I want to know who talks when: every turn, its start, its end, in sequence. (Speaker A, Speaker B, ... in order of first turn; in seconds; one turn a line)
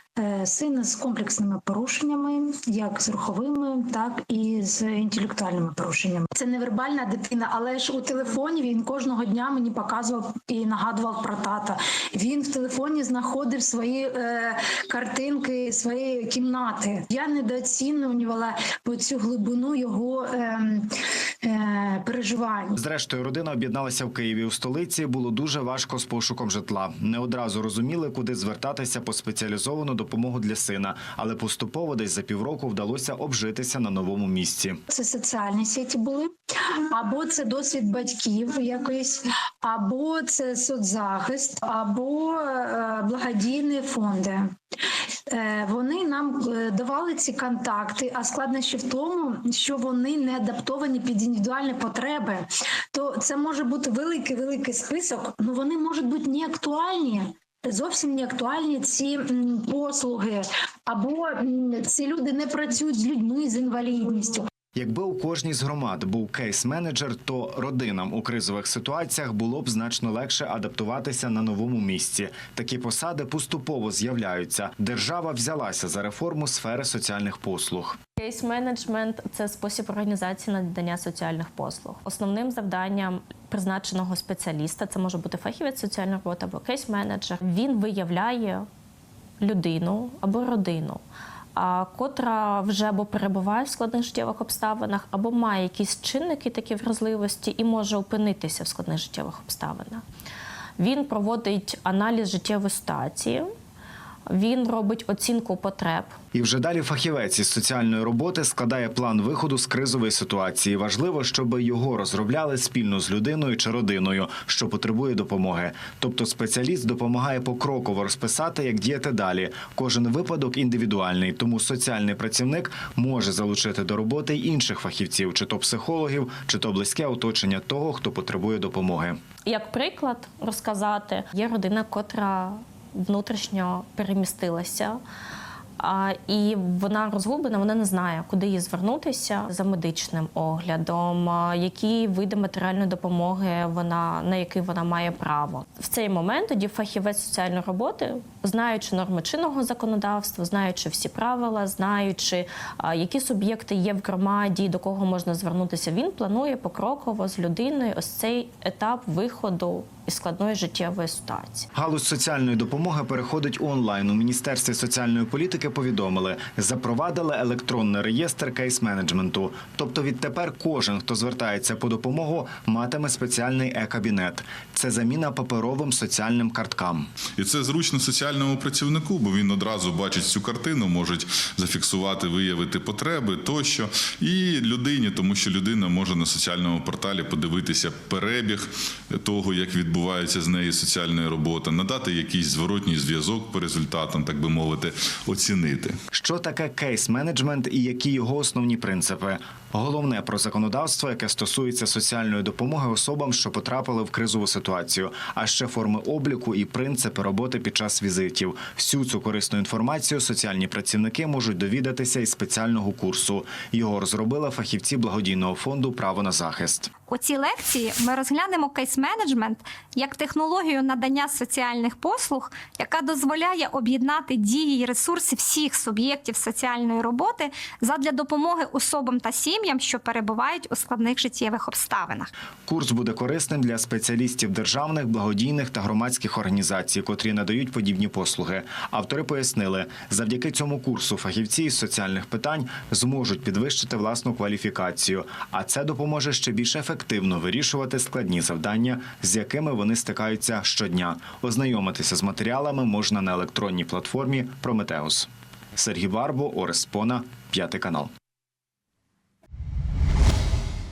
Speaker A: 0.2-20.9
Speaker A: 21.4-22.8
Speaker B: 22.8-34.8
Speaker A: 34.9-44.5
Speaker A: 45.3-64.5
Speaker B: 64.7-78.0
Speaker C: 78.2-88.7
Speaker C: 89.4-91.0
Speaker C: 91.5-100.0
Speaker C: 100.8-103.5
Speaker C: 104.3-106.1
Speaker B: 106.3-129.2
Speaker C: 129.4-135.0
Speaker C: 135.8-161.7
Speaker B: 161.7-177.1
Speaker D: 177.4-195.9
Speaker B: 196.1-216.9
Speaker E: 217.1-232.3
Speaker B: 232.7-258.1